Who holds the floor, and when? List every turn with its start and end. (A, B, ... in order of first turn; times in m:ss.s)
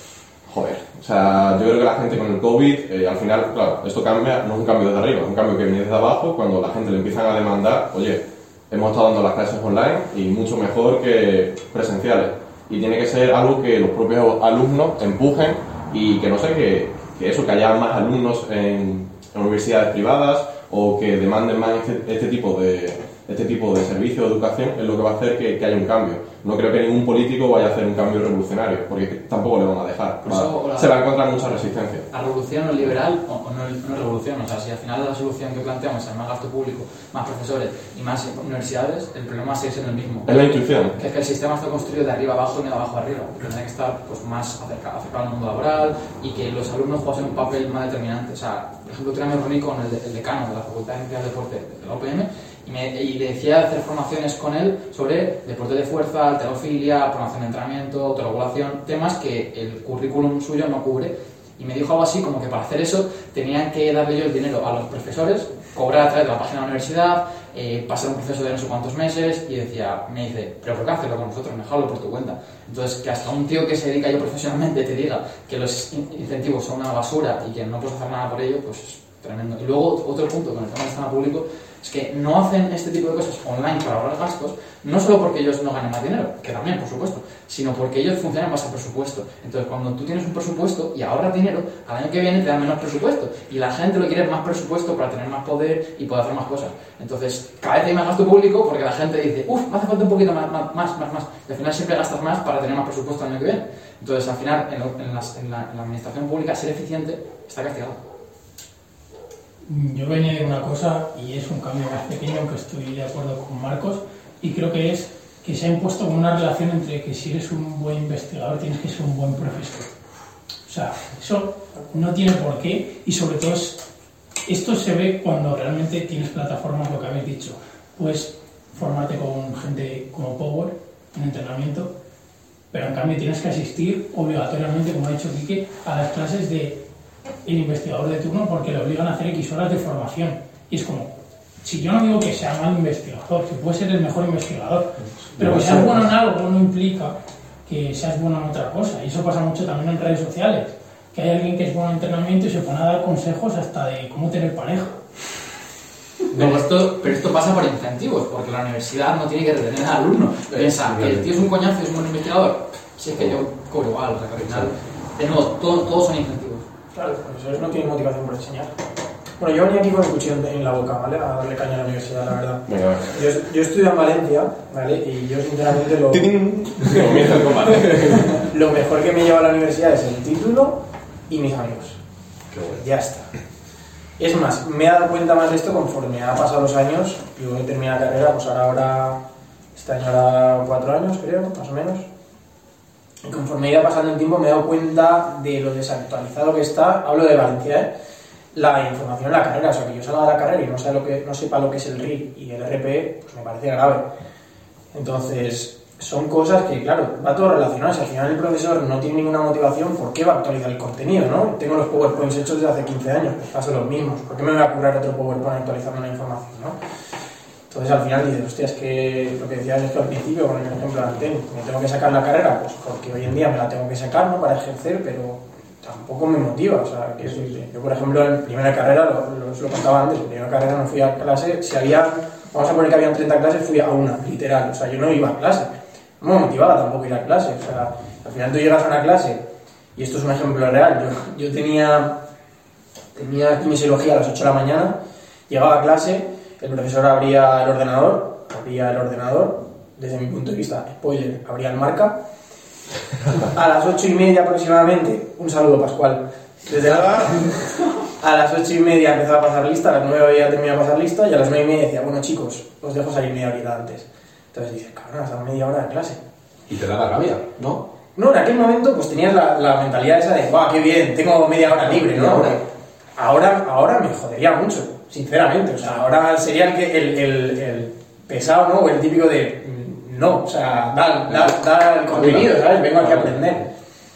0:00.4-0:32.1 A
0:30.2-0:31.0 B
0:32.1-1:48.0 B
0:40.2-0:41.0 A
1:49.6-1:59.9 C
2:00.6-2:03.8 C
2:04.4-2:11.9 C
2:12.7-2:16.8 C
2:17.4-2:21.1 C
2:21.6-2:35.0 C
2:25.2-2:26.1 D
2:36.3-2:46.6 B
2:36.3-2:36.6 D
2:40.5-2:41.4 D
2:44.4-2:44.6 D
2:46.9-2:48.7 E
2:49.4-3:02.0 E
2:52.7-2:53.1 A
2:56.1-2:58.4 A
3:02.5-3:02.8 A
3:02.7-3:03.3 E
3:04.2-3:09.2 E
3:09.7-3:12.0 E
3:13.2-3:17.9 E
3:18.5-3:24.0 E
3:24.9-3:36.8 E
3:37.7-3:59.4 E
3:59.9-4:02.2 E
4:03.2-4:05.0 E
4:05.5-4:12.2 E
4:13.4-4:17.6 E
4:16.8-4:17.3 A
4:18.2-4:26.2 E
4:26.7-4:27.8 D
4:28.1-4:43.7 E
4:31.8-4:32.6 D
4:42.1-4:42.5 D